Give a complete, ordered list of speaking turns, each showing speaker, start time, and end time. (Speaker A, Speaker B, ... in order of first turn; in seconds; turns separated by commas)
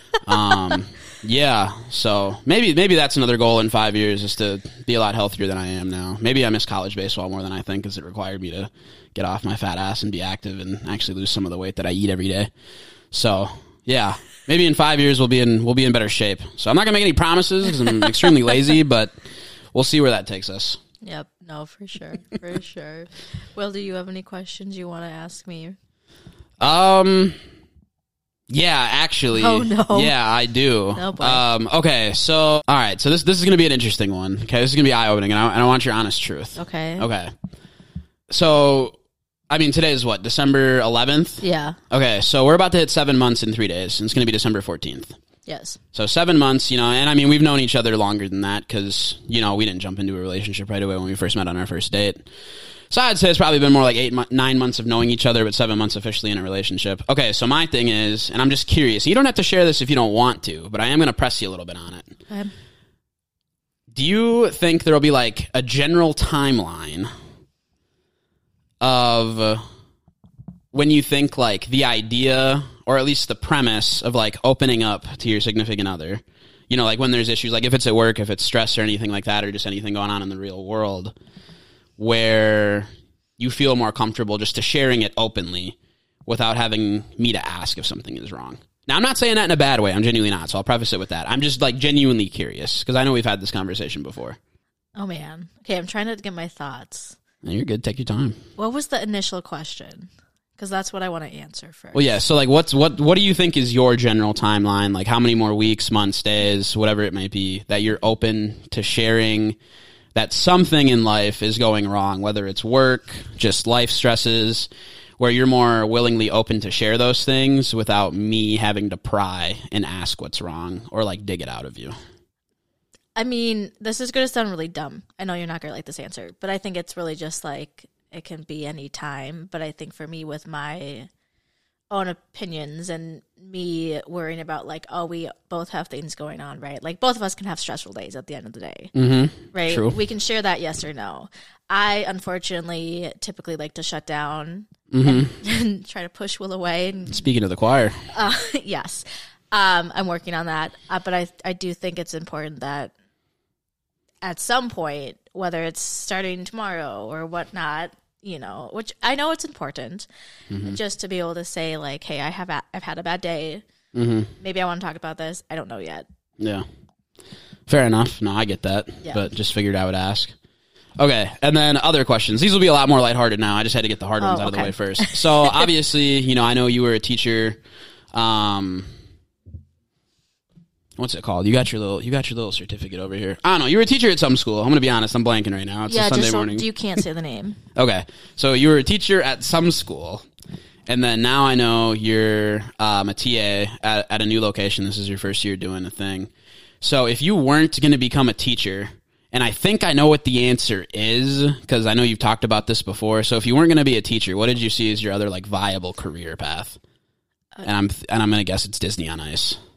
Speaker A: 0.2-12.5, Speaker A: 13.1-19.2, Speaker B: 17.8-18.3, Speaker A: 19.7-20.8, Speaker B: 21.0-25.8, Speaker A: 26.6-27.4, Speaker A: 28.5-37.3, Speaker B: 29.4-30.1, Speaker B: 31.0-31.4, Speaker B: 36.6-37.1, Speaker A: 38.3-39.0, Speaker A: 39.5-45.2, Speaker B: 41.4-41.8, Speaker B: 45.5-45.8, Speaker A: 45.9-52.3, Speaker A: 52.9-62.2, Speaker A: 63.9-67.1, Speaker A: 68.8-69.6, Speaker A: 70.7-81.1, Speaker A: 82.0-94.4, Speaker B: 95.0-97.2, Speaker A: 97.4-98.4, Speaker B: 98.6-102.2, Speaker A: 101.9-109.6, Speaker A: 110.2-122.0, Speaker B: 123.2-131.1, Speaker B: 131.9-138.9, Speaker A: 138.9-140.0, Speaker B: 139.5-147.2, Speaker A: 144.9-145.3, Speaker A: 147.1-148.0, Speaker B: 148.1-152.9, Speaker B: 154.2-160.1, Speaker A: 160.5-160.8, Speaker B: 160.6-163.7, Speaker A: 163.9-164.3, Speaker B: 164.4-166.1, Speaker A: 166.4-166.7, Speaker A: 167.7-170.3, Speaker A: 171.0-177.6, Speaker B: 174.2-175.7, Speaker A: 178.1-178.9, Speaker A: 181.0-186.7, Speaker B: 185.9-187.6, Speaker A: 187.8-190.2, Speaker A: 190.9-196.3, Speaker A: 196.8-206.8, Speaker A: 207.6-209.6